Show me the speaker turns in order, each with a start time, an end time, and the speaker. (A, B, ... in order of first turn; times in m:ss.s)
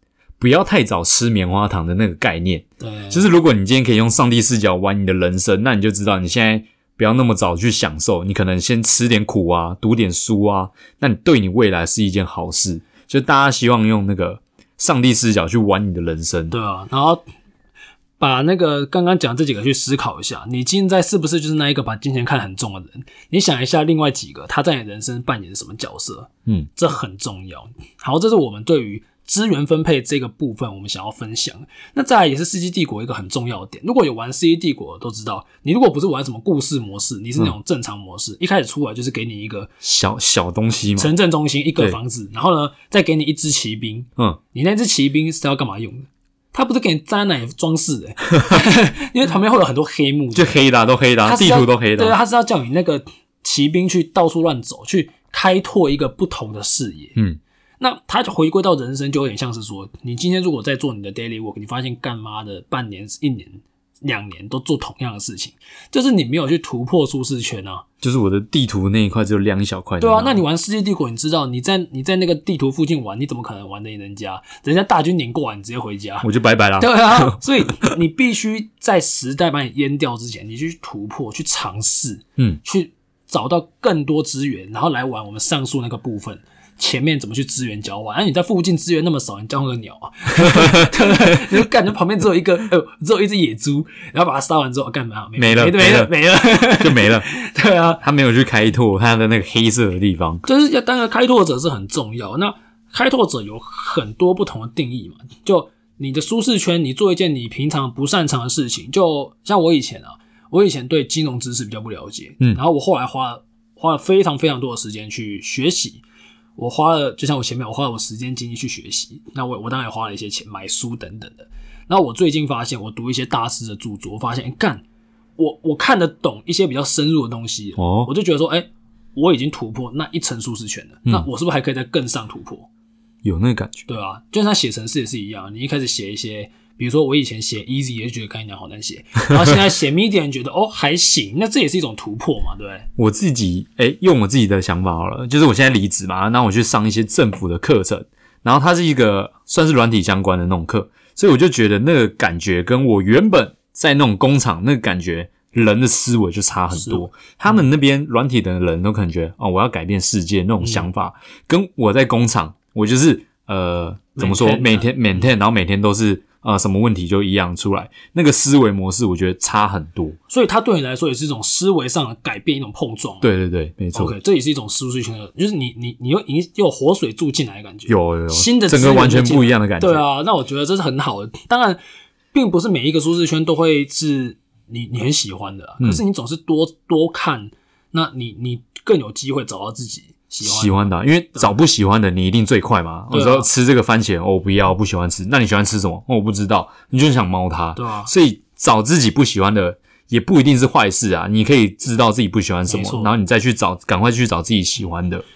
0:00.4-0:16.5 A
0:02.8-0:03.3 B
0:16.5-0:17.2 B
0:18.2-0:39.7 B
0:39.8-0:41.1 A
0:41.0-0:50.6 B
0:50.3-0:52.2 A
0:51.2-0:57.2 B
0:57.8-1:07.8 B
1:08.0-1:10.4 A
1:10.0-1:16.3 B
1:16.2-1:17.4 A
1:16.8-1:38.0 B
1:35.4-1:36.1 A
1:36.7-1:37.3 A
1:38.0-1:40.4 A
1:40.4-1:56.0 B
1:56.6-2:04.8 B
2:05.4-2:12.7 B
2:07.8-2:08.1 A
2:13.2-2:13.8 A
2:13.9-2:22.9 B
2:23.0-2:50.2 A
2:36.7-2:37.6 B
2:40.6-2:40.9 B
2:44.2-2:45.3 B
2:50.3-2:53.3 B
2:53.2-2:54.1 A
2:53.9-3:01.8 B
2:57.9-3:00.0 A
3:02.3-3:11.6 B
3:10.4-3:25.2 A
3:13.1-3:13.5 B
3:17.8-3:18.1 B
3:22.7-3:23.1 B